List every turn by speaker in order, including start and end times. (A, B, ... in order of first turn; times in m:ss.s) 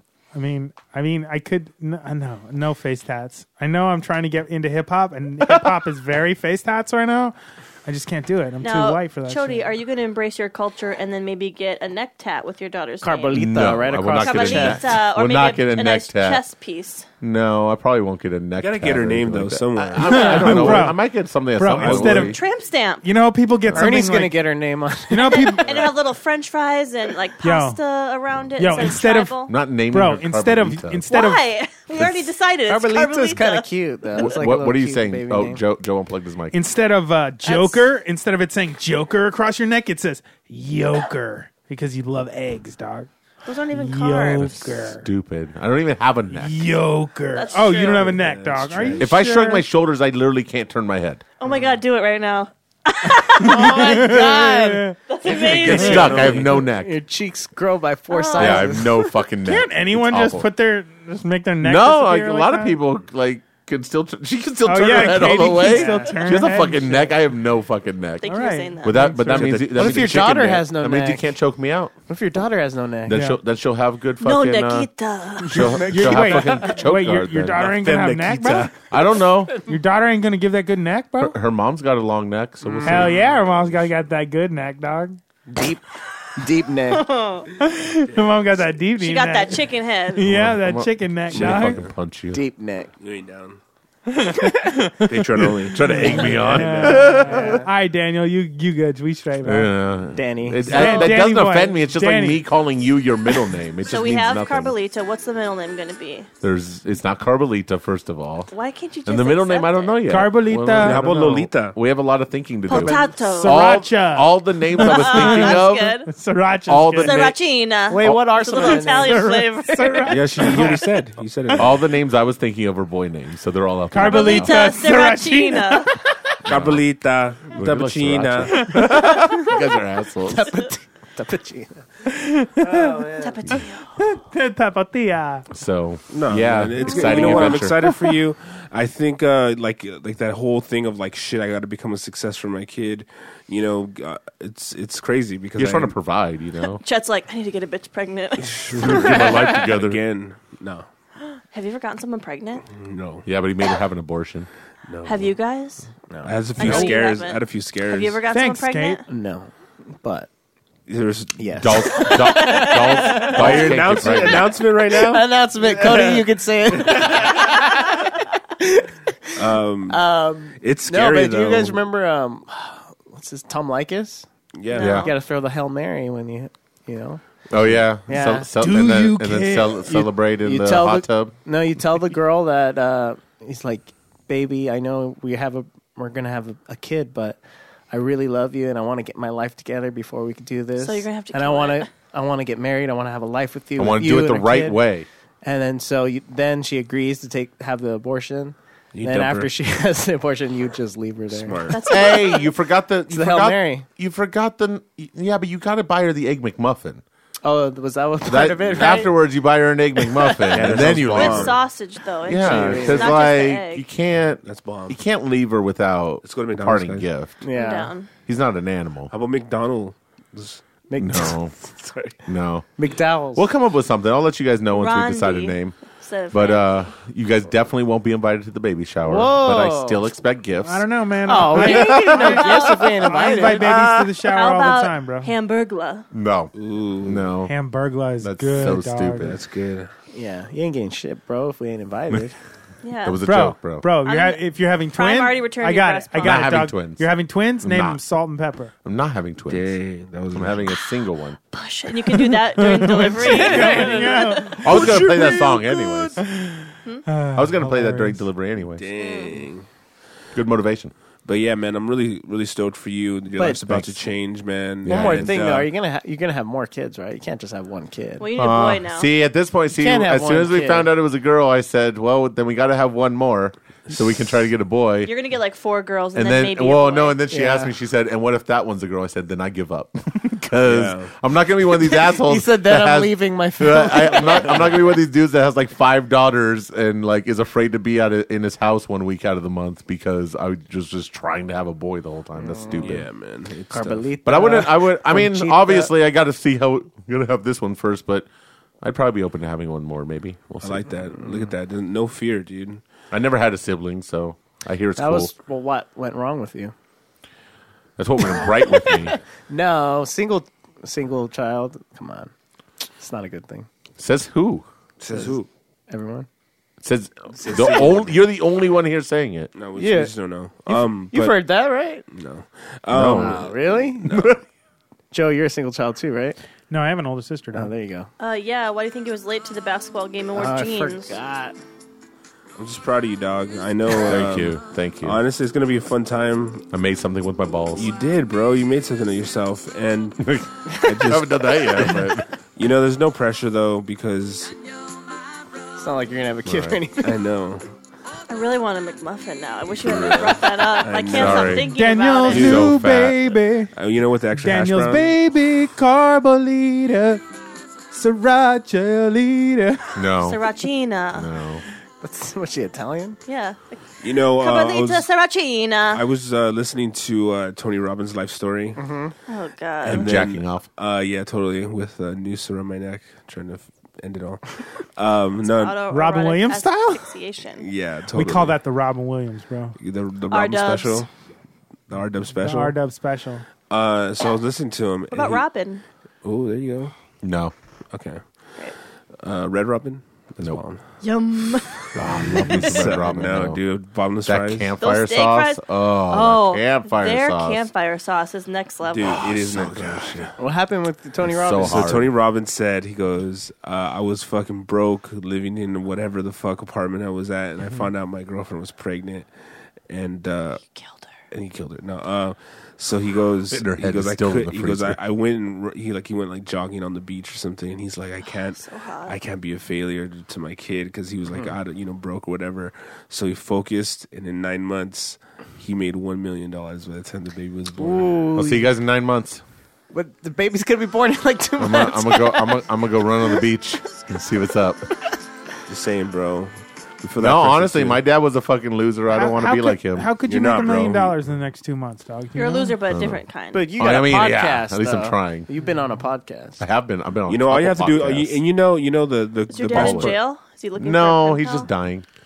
0:00.3-0:09.6 A
0:08.6-0:13.5 B
0:13.0-0:14.8 C
0:13.3-0:16.4 D
0:14.1-0:17.1 B
0:17.2-0:22.4 D
0:18.6-0:20.9 E
0:20.0-0:21.0 A
0:21.6-0:22.4 A
0:21.6-0:22.4 E
0:22.1-0:23.0 B
0:23.0-0:24.4 A
0:23.6-0:24.0 D
0:23.7-0:25.8 C
0:25.1-0:25.9 A
0:25.3-0:29.5 B
0:27.4-0:27.8 A
0:28.6-0:31.4 A
0:29.5-0:31.0 D
0:31.1-0:33.7 B
0:32.7-0:35.6 C
0:34.2-0:36.6 D
0:36.5-0:43.1 A
0:37.4-0:37.9 B
0:43.4-0:44.6 B
0:43.7-0:45.1 A
0:44.4-0:46.6 D
0:46.3-0:49.6 A
0:47.3-0:48.2 B
0:47.8-0:49.1 E
0:49.0-0:51.2 D
0:51.4-0:54.4 B
0:53.4-0:54.9 C
0:53.4-0:55.0 A
0:55.1-0:56.4 B
0:55.3-0:56.6 E
0:55.3-0:57.0 D
0:56.4-0:59.0 C
0:58.1-0:58.9 B
0:58.4-1:00.5 D
0:59.4-1:02.7 A
1:01.6-1:11.9 D
1:04.6-1:07.1 A
1:05.6-1:06.2 C
1:08.2-1:09.0 B
1:08.2-1:09.5 A
1:09.2-1:10.2 E
1:09.6-1:11.2 C
1:12.1-1:13.2 C
1:13.1-1:14.9 D
1:13.1-1:13.4 A
1:14.2-1:15.8 B
1:15.4-1:17.8 D
1:15.6-1:18.7 A
1:15.8-1:16.4 C
1:17.6-1:18.7 E
1:18.9-1:19.6 D
1:19.6-1:21.3 A
1:21.2-1:23.2 D
1:22.6-1:23.0 C
1:22.8-1:25.2 A
1:22.9-1:23.3 E
1:25.5-1:25.8 C
1:26.4-1:27.1 C
1:26.9-1:27.5 B
1:27.5-1:29.6 A
1:29.0-1:30.2 B
1:30.1-1:31.8 A
1:30.2-1:32.4 D
1:31.3-1:31.9 E
1:32.3-1:32.9 C
1:33.0-1:33.6 E
1:34.1-1:39.7 A
1:35.0-1:37.2 E
1:35.4-1:37.6 D
1:37.1-1:37.6 C
1:39.4-1:44.7 D
1:40.1-1:41.2 C
1:40.6-1:42.4 A
1:43.9-1:46.3 B
1:46.4-1:48.5 D
1:48.5-1:50.0 B
1:49.1-1:56.0 D
1:50.1-1:51.4 A
1:50.8-1:51.8 E
1:52.7-1:53.7 B
1:53.4-1:57.3 A
1:54.8-1:56.1 B
1:56.7-1:57.4 D
1:57.0-2:00.1 B
1:57.9-1:59.5 C
1:59.0-2:00.8 A
2:00.0-2:00.5 C
2:00.1-2:01.9 E
2:01.6-2:04.7 D
2:03.9-2:06.1 A
2:04.0-2:05.9 B
2:06.4-2:06.8 D
2:06.4-2:08.7 E
2:07.5-2:10.6 D
2:08.5-2:09.3 A
2:09.0-2:09.6 C
2:10.2-2:11.8 C
2:12.1-2:13.1 A
2:12.6-2:13.3 C
2:13.2-2:13.9 B
2:14.0-2:15.4 A
2:15.5-2:17.9 D
2:16.1-2:25.9 E
2:25.6-2:26.8 D
2:26.8-2:29.3 B
2:28.4-2:30.9 E
2:28.7-2:30.0 D
2:31.5-2:32.6 B
2:32.7-2:33.3 E
2:33.2-2:34.5 D
2:34.9-2:35.3 E
2:35.0-2:35.9 B
2:36.1-2:36.9 C
2:36.2-2:38.2 E
2:36.6-2:39.0 B
2:38.3-2:39.0 A
2:39.1-2:40.3 C
2:40.9-2:46.2 E
2:41.4-2:54.3 C
2:41.6-2:44.6 D
2:42.2-2:43.2 B
2:49.4-2:50.0 E
2:50.6-2:51.8 E
2:54.6-2:55.1 E
2:54.7-2:55.1 B
2:54.8-2:55.1 D
2:54.9-2:57.2 C
2:57.5-3:01.3 D
2:58.0-2:58.5 C
2:58.6-2:59.9 A
2:59.9-3:07.4 C
3:07.9-3:14.8 C
3:10.8-3:11.9 B
3:13.8-3:15.1 D
3:15.4-3:21.8 C
3:18.9-3:19.5 E
3:21.3-3:21.8 E
3:21.7-3:22.5 B
3:21.9-3:27.0 D
3:23.1-3:23.9 C
3:27.4-3:29.1 C
3:28.2-3:31.6 D
3:30.0-3:30.8 C
3:30.5-3:31.6 E
3:30.7-3:33.8 B
3:32.2-3:37.4 D
3:32.3-3:33.2 C
3:34.4-3:35.0 E
3:36.2-3:37.1 E
3:37.4-3:37.9 C
3:37.5-3:38.1 B
3:38.2-3:39.1 D
3:39.1-3:40.6 E
3:40.9-3:41.4 C
3:41.0-3:41.5 D
3:41.7-3:42.1 E
3:42.2-3:42.7 D
3:42.8-3:43.5 C
3:43.4-3:45.8 D
3:44.7-3:46.8 B
3:46.3-3:50.8 D
3:49.0-3:50.1 C
3:50.6-3:55.3 A
3:51.2-3:53.8 C
3:51.4-3:52.4 D
3:52.2-3:56.1 B
3:56.1-3:57.6 D
3:56.5-3:57.3 E
3:57.4-3:59.3 A
3:58.2-3:59.4 D
3:59.2-3:59.9 E
4:00.1-4:02.4 C
4:02.8-4:03.2 B
4:03.0-4:03.9 D
4:03.2-4:08.7 A
4:04.0-4:06.6 B
4:06.2-4:07.0 D
4:07.6-4:08.0 D
4:08.8-4:09.8 D
4:09.5-4:10.8 E
4:10.3-4:11.4 D
4:11.5-4:15.0 B
4:12.1-4:15.2 A
4:13.2-4:16.2 E
4:14.6-4:16.2 D
4:16.2-4:18.2 A
4:17.4-4:18.9 D
4:18.8-4:19.7 E
4:19.0-4:19.5 B
4:20.3-4:20.9 D
4:21.2-4:25.7 E
4:23.4-4:23.6 C
4:23.7-4:23.9 D
4:24.8-4:25.4 D
4:24.9-4:28.3 C
4:28.2-4:29.1 B
4:28.4-4:35.1 D
4:29.7-4:30.9 C
4:35.0-4:37.2 B
4:36.1-4:53.1 D
4:37.3-4:37.7 C
4:40.6-4:41.1 E
4:41.8-4:44.8 C
4:52.4-4:53.0 C
4:52.8-4:54.0 E
4:53.7-4:55.9 C
4:54.2-4:58.3 D
4:58.8-5:00.9 D
5:00.6-5:02.8 E
5:03.1-5:05.3 D
5:05.0-5:06.7 C
5:08.0-5:09.2 D
5:09.5-5:12.3 C
5:13.0-5:13.7 C
5:14.0-5:14.7 D
5:15.0-5:15.5 E
5:15.9-5:16.3 C
5:16.8-5:19.5 D
5:17.3-5:18.2 E
5:19.5-5:21.4 E
5:19.8-5:20.1 C
5:20.7-5:22.1 C
5:22.1-5:24.4 E
5:22.9-5:23.4 D
5:23.0-5:24.1 C
5:24.0-5:24.4 D
5:25.1-5:26.4 C
5:26.7-5:27.7 A
5:27.5-5:28.1 C
5:28.2-5:31.1 B
5:30.4-5:31.6 C
5:32.6-5:36.6 E
5:34.0-5:35.2 D
5:36.7-5:37.9 D
5:37.7-5:44.6 E
5:40.2-5:42.3 D
5:45.8-5:47.2 C
5:46.4-5:46.8 D
5:47.0-5:47.7 E
5:48.3-5:52.6 B
5:49.7-5:51.7 E
5:51.1-5:51.7 D
5:51.6-5:53.7 A
5:52.3-5:52.8 E
5:52.3-5:53.2 D
5:53.7-5:55.1 E
5:54.4-5:57.2 A
5:57.9-6:00.0 A
5:59.9-6:00.4 D
6:00.2-6:01.3 B
6:01.1-6:01.6 D
6:02.0-6:03.2 C
6:03.2-6:06.0 B
6:04.0-6:05.0 E
6:05.9-6:08.8 E
6:08.8-6:09.1 C
6:09.3-6:10.2 B
6:09.8-6:15.8 E
6:09.8-6:10.6 D
6:15.4-6:17.7 B
6:15.9-6:17.1 A
6:17.6-6:18.6 E
6:18.1-6:19.8 A
6:19.8-6:21.1 E
6:20.3-6:21.1 B
6:21.9-6:22.8 E
6:22.3-6:23.4 A
6:23.7-6:25.4 E
6:25.1-6:25.8 B
6:26.2-6:26.9 E
6:27.2-6:27.5 D
6:27.9-6:28.6 E
6:29.1-6:30.8 E
6:31.0-6:32.0 B
6:31.9-6:33.6 D
6:32.0-6:34.8 E
6:34.2-6:37.7 D
6:34.8-6:39.3 B
6:38.9-6:40.3 E
6:39.1-6:40.3 D
6:40.4-6:41.9 C
6:41.2-6:42.1 D
6:41.6-6:49.3 E
6:49.9-6:50.6 E
6:50.6-6:51.0 B
6:51.3-7:08.1 E
6:53.5-6:55.0 D
6:58.6-6:59.2 B
7:07.8-7:08.7 C
7:08.4-7:09.4 D
7:09.9-7:12.6 C
7:11.6-7:14.8 D
7:15.7-7:18.0 E
7:17.2-7:20.1 D
7:19.1-7:22.8 A
7:20.2-7:21.2 E
7:22.4-7:23.7 B
7:22.9-7:23.2 D
7:23.5-7:26.6 C
7:23.8-7:25.5 D
7:26.6-7:28.4 D
7:27.3-7:30.2 E
7:29.5-7:31.7 B
7:29.7-7:30.2 D
7:30.8-7:32.0 D